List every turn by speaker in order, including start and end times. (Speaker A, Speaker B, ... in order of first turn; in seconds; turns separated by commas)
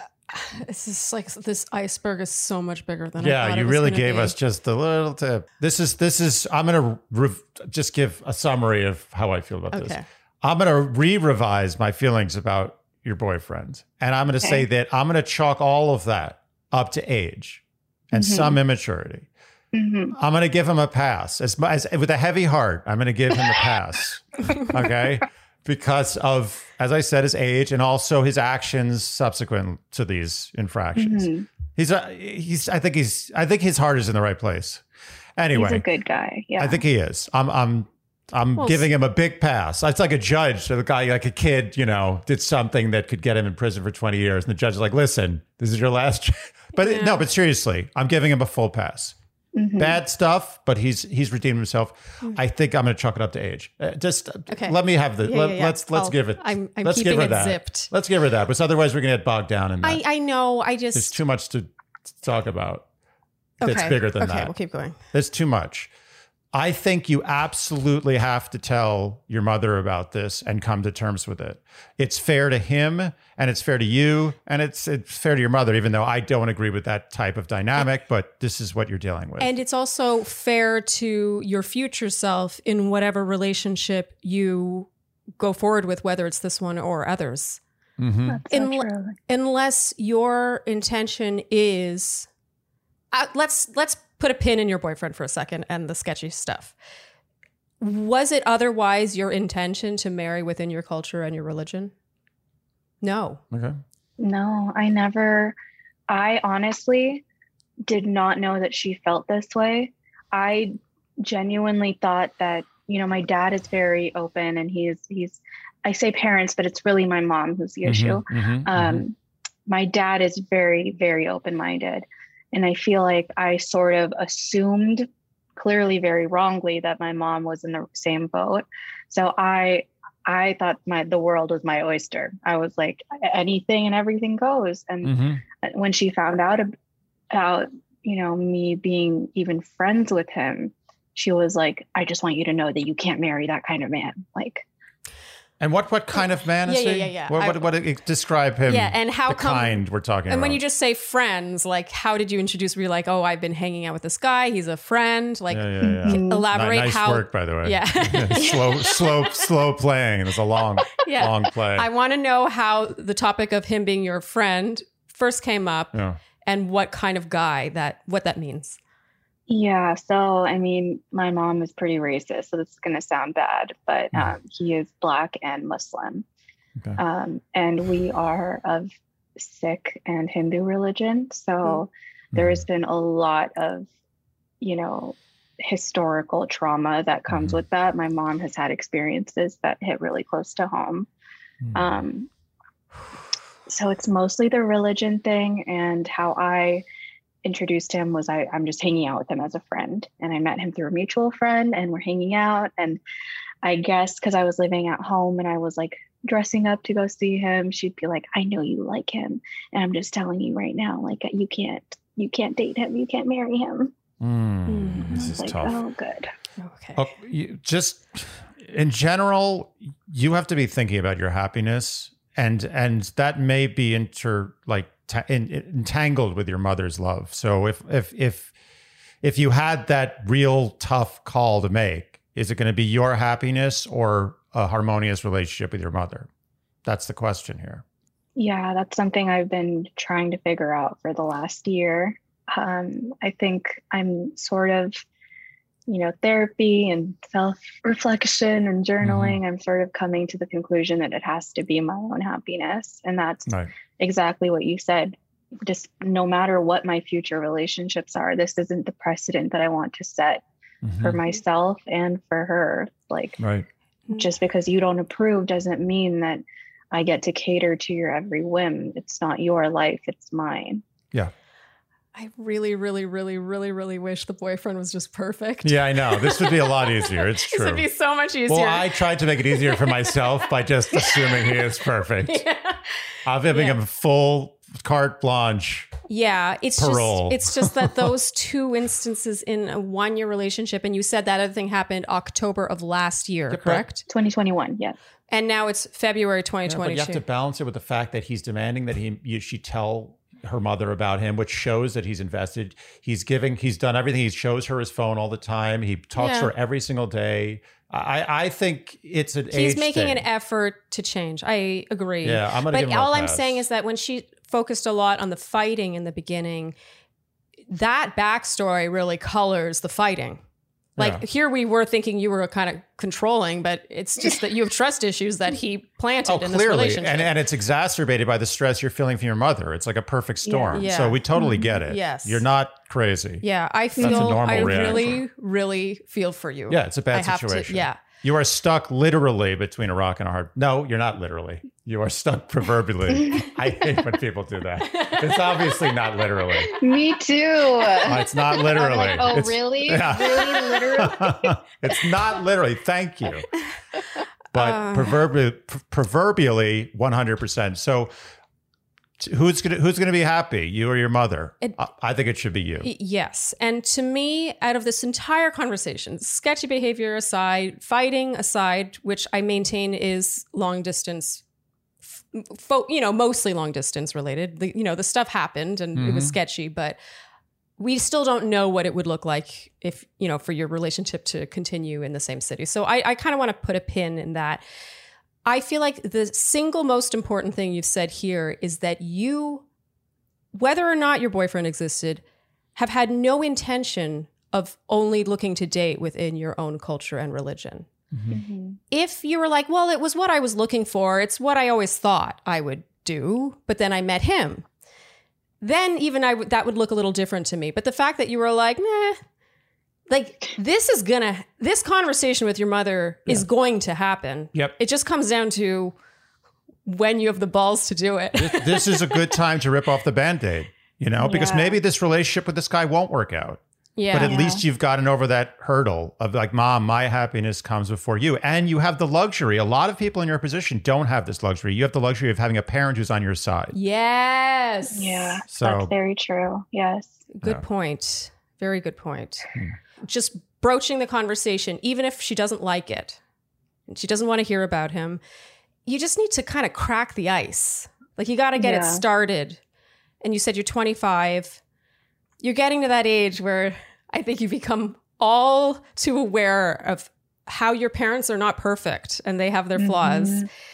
Speaker A: 0.3-4.3, Speaker B: 3.2-19.3, Speaker A: 9.7-10.0, Speaker C: 14.4-14.7, Speaker C: 18.1-18.6, Speaker C: 19.7-20.1, Speaker B: 20.1-34.8, Speaker C: 30.9-31.4, Speaker B: 35.4-35.8, Speaker C: 35.5-36.8, Speaker B: 36.6-49.1, Speaker A: 38.6-38.9, Speaker A: 46.8-47.2, Speaker C: 49.5-50.0, Speaker B: 49.8-60.0, Speaker A: 54.5-57.9, Speaker A: 59.8-61.2, Speaker B: 60.9-62.9, Speaker B: 63.6-64.5, Speaker A: 63.6-65.0, Speaker B: 65.1-65.9, Speaker B: 66.5-79.5, Speaker A: 79.4-87.6, Speaker B: 88.0-88.4, Speaker C: 88.3-89.2, Speaker A: 88.5-92.3, Speaker A: 93.1-96.7, Speaker A: 97.8-101.9, Speaker A: 103.0-103.4, Speaker B: 103.5-103.8, Speaker C: 104.2-105.5, Speaker C: 106.1-107.2, Speaker C: 107.8-119.1, Speaker B: 117.8-119.0, Speaker C: 119.7-136.7, Speaker B: 135.0-135.4, Speaker C: 137.3-144.7, Speaker B: 145.6-150.6, Speaker A: 146.6-147.6, Speaker A: 148.7-159.3, Speaker B: 155.5-161.9, Speaker C: 155.8-156.4, Speaker A: 161.0-168.8, Speaker B: 165.9-166.2, Speaker C: 169.5-176.2, Speaker C: 177.0-183.9, Speaker B: 182.3-182.6, Speaker C: 184.6-191.1, Speaker B: 187.3-187.6, Speaker C: 191.7-192.3, Speaker C: 193.7-196.8, Speaker C: 197.4-203.0, Speaker C: 203.6-213.9, Speaker B: 214.2-215.8, Speaker A: 214.7-215.2, Speaker C: 215.1-216.3, Speaker A: 216.6-217.1, Speaker B: 216.9-228.5, Speaker B: 229.2-236.3, Speaker B: 236.8-237.8, Speaker C: 238.3-245.0, Speaker C: 245.9-260.4, Speaker B: 249.0-249.4, Speaker B: 260.8-261.2, Speaker C: 261.0-263.4, Speaker B: 263.4-263.7, Speaker C: 264.1-270.8, Speaker A: 272.1-278.9, Speaker B: 275.6-277.8, Speaker B: 278.5-282.4, Speaker A: 279.5-280.1, Speaker A: 280.9-281.6, Speaker A: 282.2-283.8, Speaker B: 283.2-285.9, Speaker A: 286.1-294.1, Speaker B: 286.8-288.1, Speaker B: 293.5-293.9, Speaker C: 294.1-295.0, Speaker A: 295.3-297.2, Speaker B: 296.6-310.2, Speaker A: 306.1-306.5, Speaker A: 309.5-316.7, Speaker B: 312.2-313.6, Speaker A: 317.7-320.4, Speaker B: 321.0-321.2, Speaker A: 321.0-327.3, Speaker B: 326.2-333.4, Speaker C: 330.4-331.6, Speaker A: 330.7-331.2, Speaker A: 331.9-332.4, Speaker A: 333.4-338.0, Speaker B: 334.0-335.2, Speaker C: 334.0-335.1, Speaker B: 336.7-346.7, Speaker A: 344.9-345.6, Speaker C: 346.7-351.5, Speaker B: 348.0-353.5, Speaker A: 354.5-355.1, Speaker B: 354.5-358.1, Speaker B: 359.2-362.9, Speaker A: 362.8-371.4, Speaker A: 372.0-377.0, Speaker B: 375.9-376.4, Speaker A: 377.8-384.6, Speaker A: 385.4-389.6, Speaker A: 390.5-392.2, Speaker A: 392.8-397.9, Speaker B: 398.1-398.4, Speaker C: 398.3-398.8, Speaker A: 398.9-404.6, Speaker A: 405.6-409.2, Speaker A: 410.1-415.9, Speaker A: 416.9-419.2, Speaker B: 418.3-433.8, Speaker C: 421.2-421.8, Speaker A: 423.9-424.4, Speaker C: 424.2-424.6, Speaker A: 433.7-435.4, Speaker C: 434.9-437.2, Speaker B: 435.5-435.9, Speaker A: 437.3-439.5, Speaker A: 440.0-443.2, Speaker A: 443.9-445.2, Speaker A: 445.8-449.6, Speaker C: 448.6-449.0, Speaker A: 450.2-451.6, Speaker A: 452.4-460.5, Speaker C: 459.8-460.5